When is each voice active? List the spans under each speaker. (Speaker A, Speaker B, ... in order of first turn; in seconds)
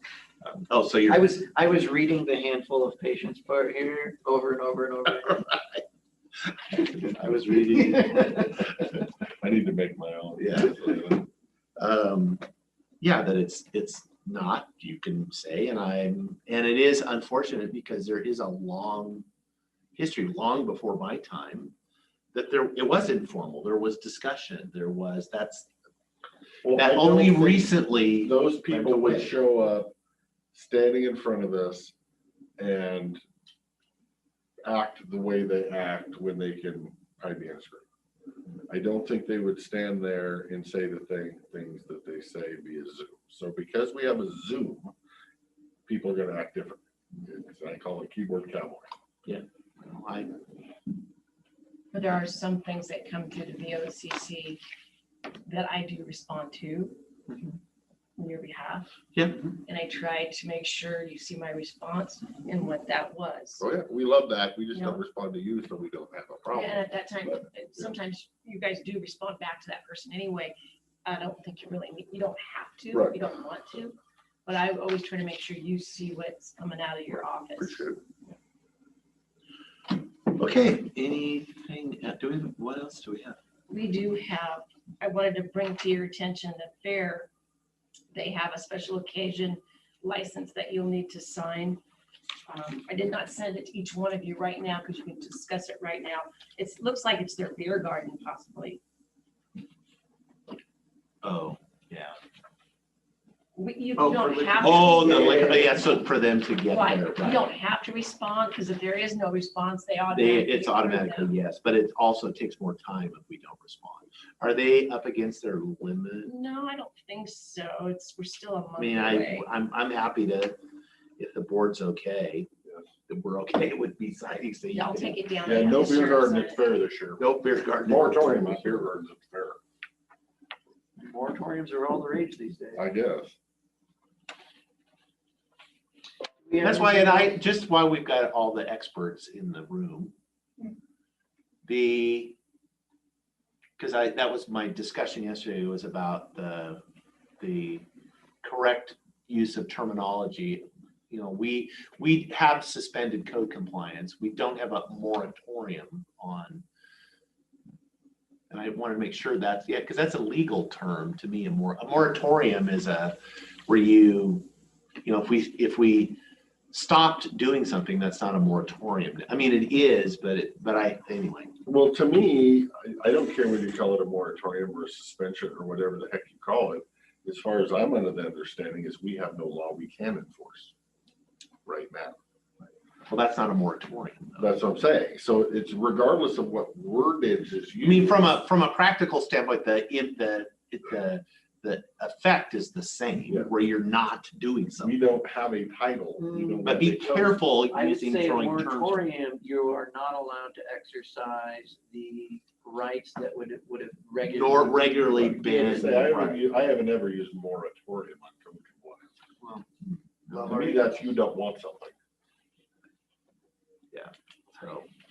Speaker A: 0.4-1.3, 6.7-8.6, 10.4-11.2, 11.8-12.4, 13.0-19.2, 19.9-21.7, 22.3-25.7, 26.7-29.3, 49.2-50.3, 59.1-59.5, 80.3-83.4, 101.2-102.2, 104.6-107.5, 110.1-116.3, 118.8-120.6, 121.2-122.5, 123.1-125.8, 127.2-128.7, 136.6-140.1, 141.7-142.3, 143.8-146.8, 147.4-147.8, 148.4-156.6, 158.5-164.4, 165.0-166.2, 166.7-171.5, 183.1-184.6, 187.8-194.9, 196.6-199.0, 204.2-206.4, 213.9-214.9
Speaker B: 1.1-5.5, 7.8-8.4, 104.0-105.8, 131.0-132.8, 136.4-137.3, 196.2-196.6, 197.7-205.9, 210.3-211.0
Speaker C: 9.4-11.3, 26.6-29.9, 30.5-31.9, 32.6-33.2, 34.6-37.8, 38.7-44.9, 45.9-48.9, 63.6-67.9, 72.9-73.2, 77.6-77.9, 125.4-127.2, 127.8-129.6, 132.7-133.3, 171.7-180.7, 181.7-182.2, 184.4-188.3, 194.8-197.4, 205.4-209.1, 210.3-211.9
Speaker D: 51.9-54.6, 55.5-57.0, 58.2-58.9, 59.6-63.6, 64.7-65.0, 66.5-77.8, 83.7-87.3, 88.1-91.8, 92.5-98.8, 103.5-105.6, 106.7-111.3, 116.2-119.5, 124.7-126.6